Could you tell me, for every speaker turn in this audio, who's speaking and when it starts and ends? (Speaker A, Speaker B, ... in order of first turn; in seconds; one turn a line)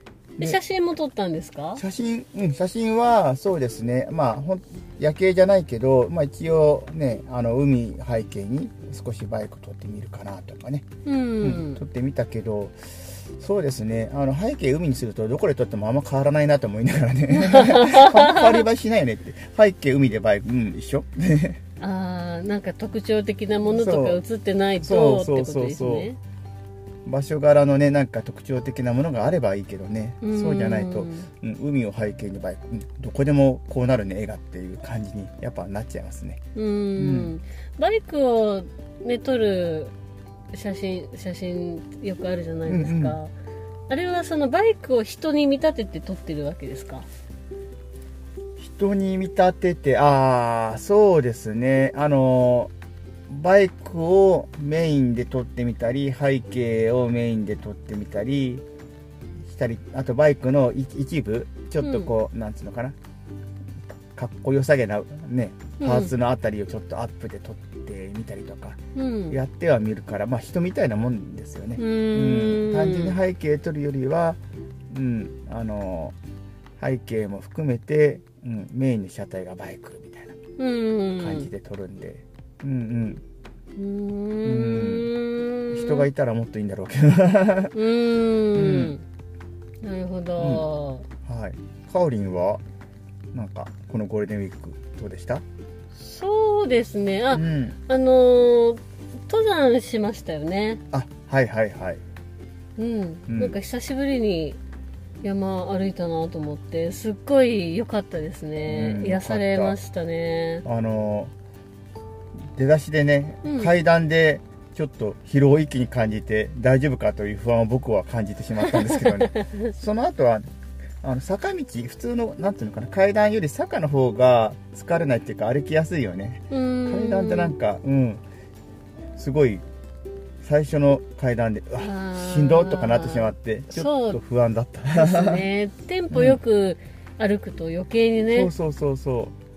Speaker A: 0.4-1.8
Speaker B: 1.8-10.9
Speaker A: 11.1-11.8
Speaker B: 11.4-21.6
Speaker A: 17.3-18.6
Speaker A: 21.8-26.2
Speaker B: 23.6-24.2
Speaker B: 24.8-26.1
Speaker B: 27.1-36.4
Speaker A: 30.2-31.3
Speaker A: 36.5-39.9
Speaker B: 37.0-37.3
Speaker A: 40.5-43.3
Speaker B: 42.7-43.2
Speaker A: 43.9-47.1
Speaker B: 48.6-52.7
Speaker B: 53.3-58.6
Speaker B: 59.5-63.0
Speaker A: 61.8-62.1
Speaker B: 64.2-76.2
Speaker A: 65.8-66.1
Speaker A: 69.0-69.4
Speaker A: 71.8-73.2
Speaker B: 76.8-80.4
Speaker A: 80.6-81.5
Speaker B: 81.2-83.2
Speaker A: 83.8-86.1
Speaker B: 84.4-85.1
Speaker B: 85.7-87.8
Speaker A: 87.7-89.0
Speaker B: 88.5-89.0
Speaker A: 89.8-91.1
Speaker B: 90.4-90.7
Speaker B: 91.2-92.6
Speaker B: 93.3-95.4
Speaker A: 96.0-100.8
Speaker B: 97.3-97.8
Speaker B: 100.9-102.0
Speaker A: 102.8-104.6
Speaker B: 103.3-103.6
Speaker A: 105.2-110.7
Speaker B: 108.7-109.8
Speaker B: 110.7-111.3
Speaker B: 112.5-120.5
Speaker A: 113.4-113.7
Speaker A: 118.6-119.7
Speaker B: 121.0-128.2
Speaker A: 126.5-127.6
Speaker B: 129.2-129.6
Speaker B: 130.4-135.5
Speaker A: 131.8-134.2
Speaker A: 134.9-138.5
Speaker B: 136.1-136.4
Speaker B: 138.3-139.3